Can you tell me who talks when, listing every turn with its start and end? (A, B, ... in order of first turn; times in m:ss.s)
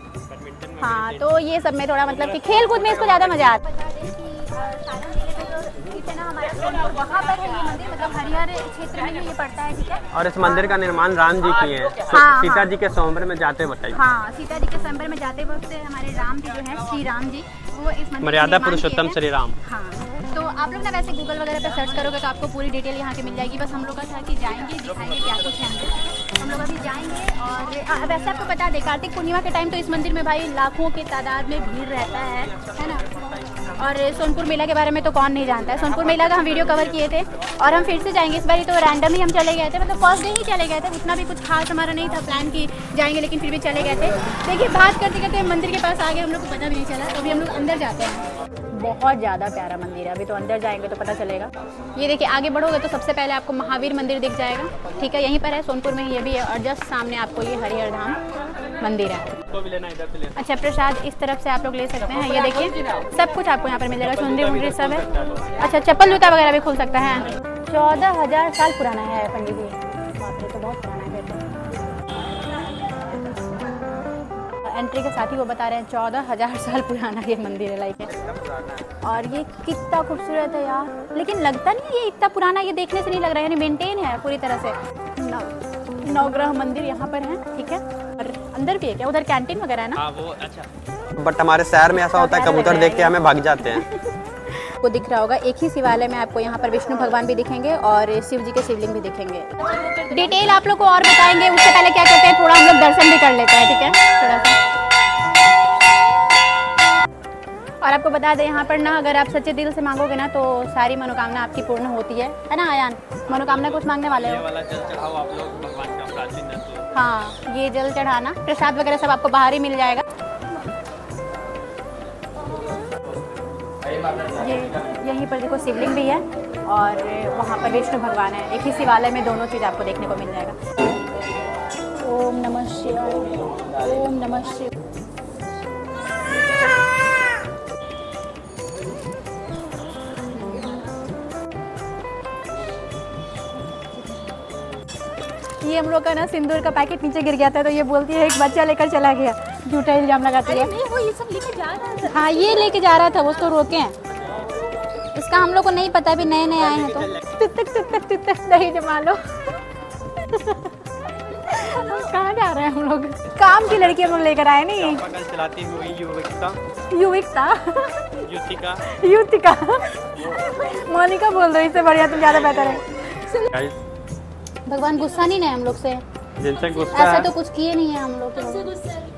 0:00.2-0:01.4 A
0:00.8-0:10.7 B
0:02.0-0:03.6 A
0:10.1-0:14.0 A
0:12.0-0:12.7 B
0:13.9-0:33.1 B
0:18.2-0:19.6 A
0:33.7-0:58.2 B
0:36.1-0:36.6 A
0:58.8-0:59.3 B
0:59.4-1:00.5 A
1:00.4-1:11.6 B
1:03.9-1:05.6 A
1:14.6-1:18.2 B
1:18.2-1:18.8 A
1:19.0-1:30.0 B
1:30.0-1:33.8 A
1:32.0-1:44.6 B
1:39.7-1:40.1 C
1:47.8-1:54.4 B
1:53.3-1:56.9 A
1:56.9-2:00.0 B
2:04.3-2:10.6 B
2:12.0-2:14.7 B
2:20.3-2:20.8 B
2:25.6-2:30.7 B
2:30.4-2:32.6 C
2:32.0-2:34.0 B
2:35.1-2:39.6 B
2:36.6-2:37.2 A
2:40.1-2:45.0 B
2:41.4-2:42.1 C
2:43.2-2:46.6 A
2:46.9-2:48.3 B
2:48.2-2:48.8 A
2:48.8-2:53.5 B
2:52.0-2:52.8 A
2:53.5-2:53.8 A
2:54.7-2:56.0 B
2:56.4-2:57.3 A
2:56.9-2:58.9 B